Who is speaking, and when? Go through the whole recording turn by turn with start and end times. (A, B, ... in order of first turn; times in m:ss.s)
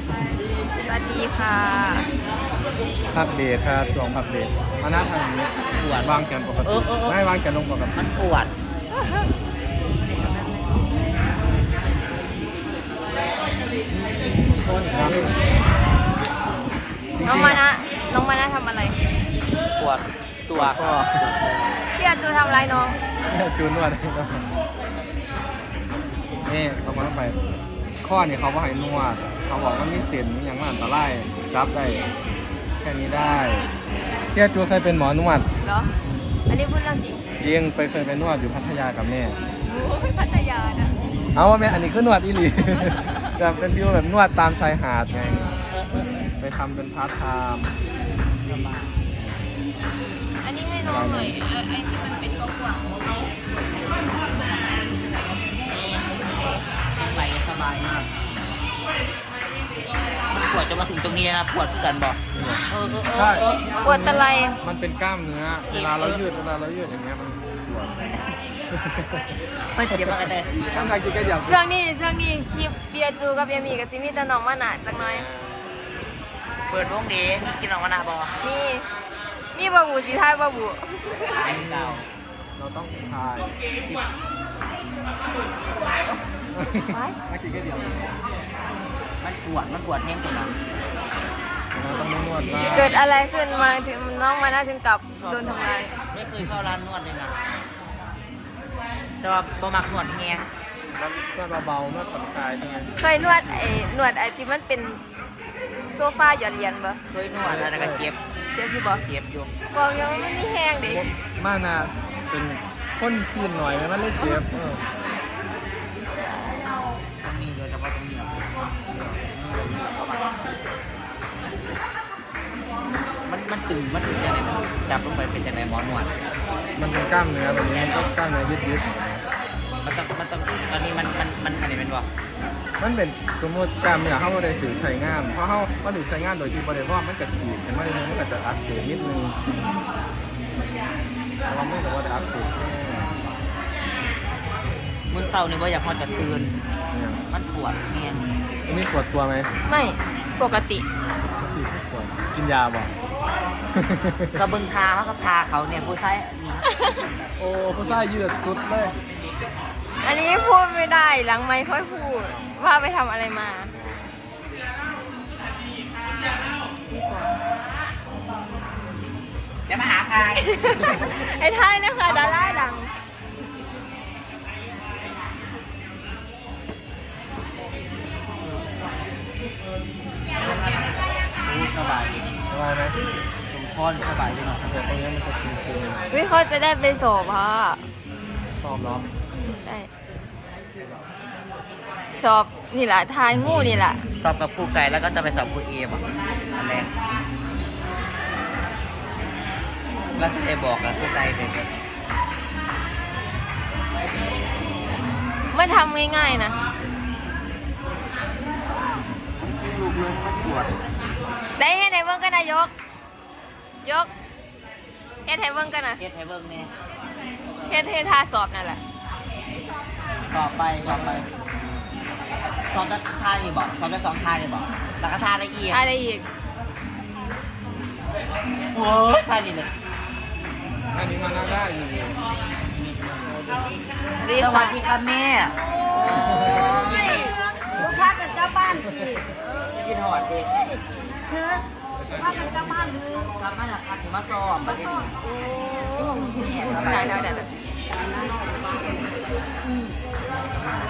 0:00.8-0:02.1 A
0:03.1-0:08.0 B
0:05.7-0:07.2 C
0:08.0-0:08.5 C
0:14.9-0:15.4 B
0:17.2-0:17.6 B
0:17.2-0:19.0 A
0:19.8-0:21.9 C
0:20.6-0:21.2 B
0:22.0-0:23.0 A
0:23.3-0:24.5 B
0:26.5-0:27.4 B
0:28.0-0:32.0 B
0:32.8-0:33.7 B
0:34.3-0:35.5 B
0:35.6-0:35.9 A
0:36.5-0:37.2 A
0:37.4-0:39.4 B
0:39.6-0:41.0 A
0:41.3-0:45.6 B
0:46.4-0:47.8 B
0:48.5-0:49.0 C
0:50.4-0:52.8 A
0:50.8-0:51.4 B
0:57.0-0:58.2 C
1:00.3-1:03.9 C
1:02.3-1:07.9 B
1:03.8-1:04.6 A
1:05.7-1:06.3 C
1:08.7-1:09.3 B
1:09.7-1:11.0 C
1:10.7-1:11.6 B
1:11.5-1:15.3 A
1:14.9-1:15.6 B
1:16.7-1:18.4 C
1:18.4-1:18.9 A
1:19.5-1:21.4 A
1:21.3-1:22.1 C
1:21.5-1:22.0 B
1:22.6-1:23.6 B
1:26.6-1:28.1 B
1:26.9-1:27.2 A
1:29.2-1:30.6 C
1:31.7-1:33.0 B
1:32.6-1:32.9 C
1:32.7-1:35.9 A
1:35.2-1:37.4 C
1:39.2-1:40.5 C
1:41.0-1:42.9 B
1:43.0-1:45.0 A
1:45.9-1:47.0 A
1:47.1-1:48.2 C
1:47.4-1:48.0 B
1:48.6-1:49.0 A
1:49.0-1:49.5 C
1:49.7-1:51.0 A
1:50.8-1:54.8 B
1:54.2-1:54.5 A
1:57.2-2:00.4 C
2:03.3-2:06.1 C
2:06.8-2:09.2 B
2:09.8-2:12.1 C
2:12.8-2:19.4 B
2:21.5-2:23.1 B
2:25.1-2:26.6 C
2:26.9-2:27.2 B
2:27.3-2:28.3 C
2:28.7-2:29.5 B
2:29.7-2:30.8 A
2:31.4-2:32.9 B
2:33.8-2:34.4 B
2:34.4-2:37.1 C
2:37.4-2:39.0 B
2:37.7-2:38.1 C
2:40.0-2:43.7 A
2:43.8-2:44.1 B
2:46.9-2:47.4 A
2:49.7-2:50.9 C
2:50.4-2:52.9 A
2:52.1-2:52.4 C
3:01.4-3:02.3 C
3:02.5-3:03.0 B
3:03.5-3:04.8 C
3:04.6-3:06.1 B
3:06.1-3:07.8 A
3:08.6-3:09.0 B
3:12.1-3:14.0 A
3:14.2-3:16.9 C
3:20.2-3:21.7 C
3:25.5-3:26.6 A
3:29.4-3:30.7 C
3:31.6-3:32.7 A
3:33.8-3:34.1 A
3:35.3-3:36.0 A
3:36.0-3:36.7 C
3:37.7-3:38.8 A
3:39.8-3:40.2 D
3:40.3-3:41.3 C
3:42.7-3:45.8 C
3:45.7-3:46.2 A
3:48.7-3:49.7 C
3:50.9-3:52.2 B
3:52.8-3:53.8 C
3:54.2-3:54.8 A
3:54.3-3:57.3 C
3:55.6-3:59.2 D
3:56.1-3:56.9 B
3:56.4-3:57.1 A
3:58.7-3:59.2 B
3:59.7-4:00.6 C
4:00.5-4:03.2 D
4:02.0-4:02.9 B
4:02.7-4:05.2 C
4:05.2-4:07.2 D
4:06.2-4:07.4 C
4:06.7-4:07.5 A
4:07.9-4:08.7 D
4:09.7-4:09.9 D